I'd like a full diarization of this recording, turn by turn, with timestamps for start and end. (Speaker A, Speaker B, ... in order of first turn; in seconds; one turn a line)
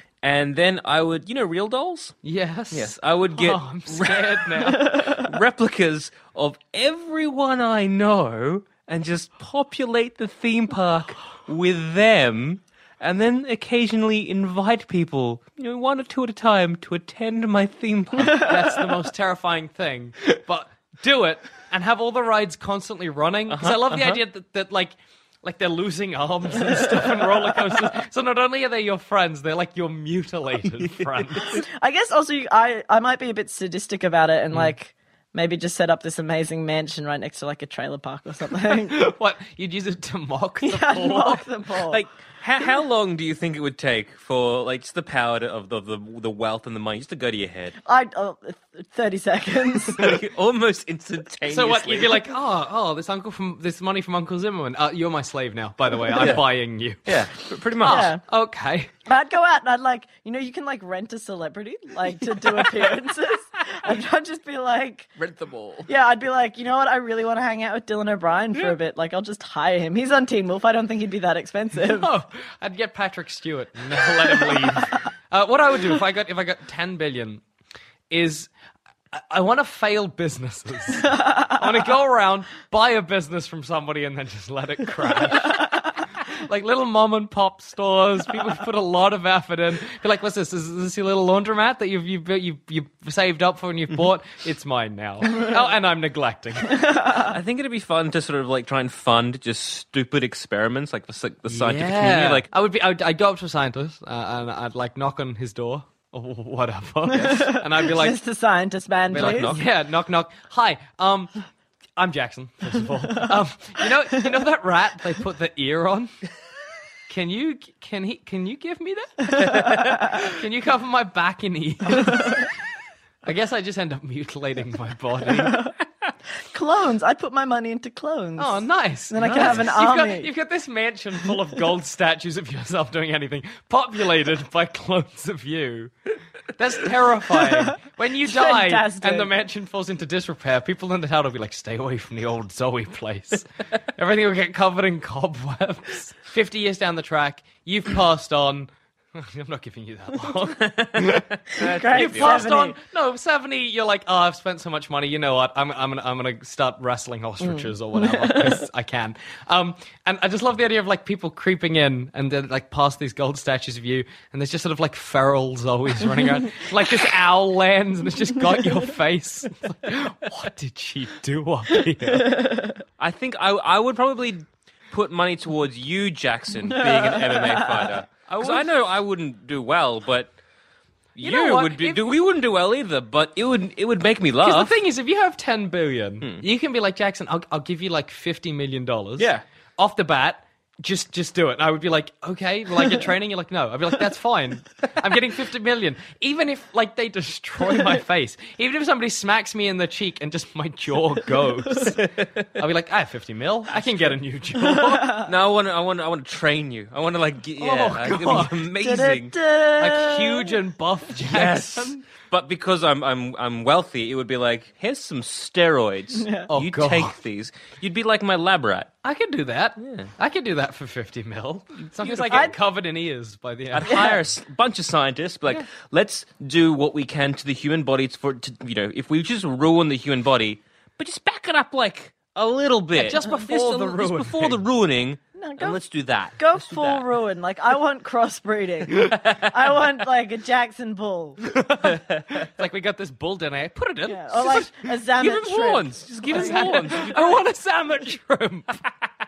Speaker A: 0.2-2.1
Speaker B: 2.2-5.0
Speaker A: 2.7-18.5
Speaker C: 4.7-5.3
Speaker B: 18.3-31.6
Speaker A: 23.5-24.2
Speaker C: 26.7-27.1
Speaker C: 31.5-39.0
Speaker B: 38.8-41.5
Speaker C: 40.6-42.0
Speaker A: 41.9-47.8
Speaker C: 47.8-50.1
Speaker A: 49.9-52.2
Speaker B: 51.5-57.1
Speaker A: 56.1-56.4
Speaker A: 57.0-58.1
Speaker B: 57.8-58.9
Speaker C: 57.8-58.2
Speaker C: 59.0-65.1
Speaker A: 65.2-65.9
Speaker C: 65.9-72.1
Speaker B: 71.8-77.4
Speaker B: 78.1-78.5
Speaker B: 79.1-96.8
Speaker C: 96.8-97.2
Speaker A: 97.1-102.5
Speaker B: 101.5-108.2
Speaker C: 107.1-109.5
Speaker A: 109.1-109.6
Speaker B: 109.1-111.3
Speaker B: 112.0-116.1
Speaker B: 117.1-122.5
Speaker B: 123.2-125.6
Speaker C: 125.4-125.7
Speaker C: 126.5-130.3
Speaker B: 128.4-135.9
Speaker A: 129.2-129.6
Speaker B: 136.5-172.6
Speaker C: 137.3-139.3
Speaker A: 150.6-152.5
Speaker C: 151.6-152.8
Speaker C: 157.4-158.7
Speaker C: 172.2-172.7
Speaker A: 173.0-180.3
Speaker C: 176.7-177.9
Speaker B: 178.3-178.7
Speaker A: 181.2-184.7
Speaker B: 181.2-182.0
Speaker B: 184.4-205.2
Speaker A: 189.2-189.4
Speaker A: 202.0-202.4
Speaker C: 204.6-205.2
Speaker A: 205.2-209.3
Speaker B: 207.6-208.6
Speaker C: 208.8-210.6
Speaker B: 209.8-212.0
Speaker A: 211.2-218.9
Speaker C: 216.2-216.5
Speaker B: 216.5-217.2
Speaker B: 219.0-224.0
Speaker A: 219.8-220.1
Speaker A: 221.8-222.5
Speaker C: 222.3-222.5
Speaker A: 223.7-237.0
Speaker C: 223.9-224.2
Speaker B: 232.9-234.6
Speaker C: 235.3-235.8
Speaker C: 236.4-241.4
Speaker B: 241.6-244.7
Speaker C: 244.1-246.9
Speaker A: 245.2-247.4
Speaker B: 246.3-248.8